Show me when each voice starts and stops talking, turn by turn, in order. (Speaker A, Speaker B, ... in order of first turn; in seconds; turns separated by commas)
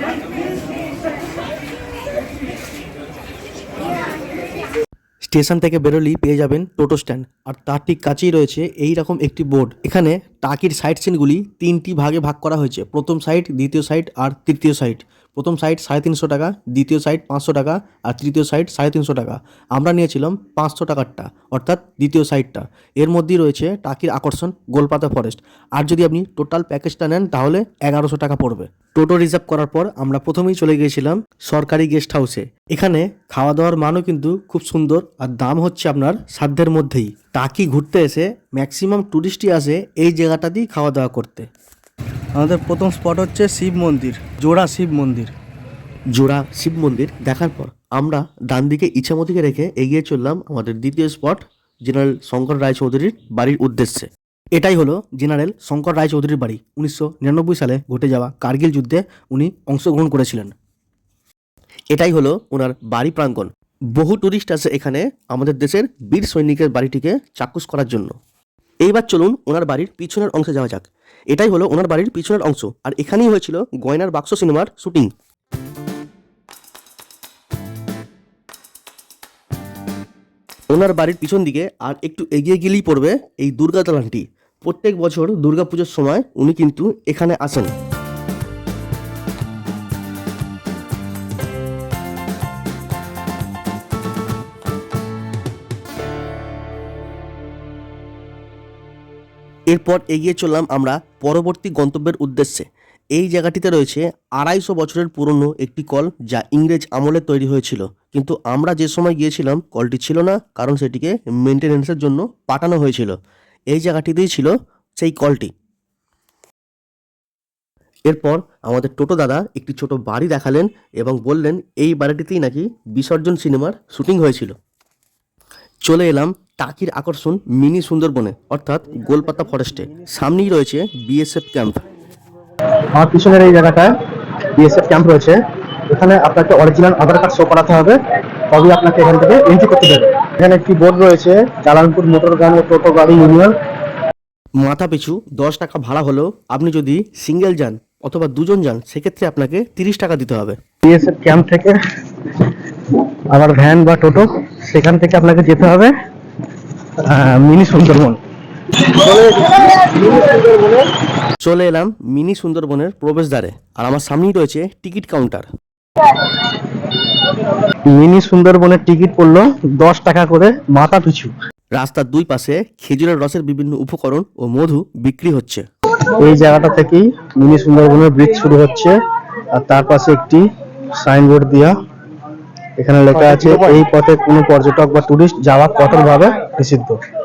Speaker A: 5.3-41.5, Speaker A: 42.4-45.3, Speaker A: 46.1-60.5, Speaker A: 61.9-68.2, Speaker A: 68.8-75.1, Speaker A: 80.7-87.7, Speaker A: 99.7-113.2, Speaker A: 113.7-115.5, Speaker A: 118.1-124.5, Speaker A: 125.8-131.8, Speaker B: 133.0-133.9, Speaker B: 134.6-135.4, Speaker B: 135.9-138.0, Speaker B: 138.5-143.5, Speaker A: 144.6-150.6, Speaker B: 150.8-151.8, Speaker B: 152.3-155.9, Speaker B: 157.1-158.2, Speaker B: 158.7-160.9, Speaker A: 161.4-165.5, Speaker B: 167.9-171.3, Speaker A: 171.7-175.6, Speaker B: 176.0-179.0, Speaker B: 179.6-180.4, Speaker B: 181.0-181.7, Speaker B: 182.8-187.0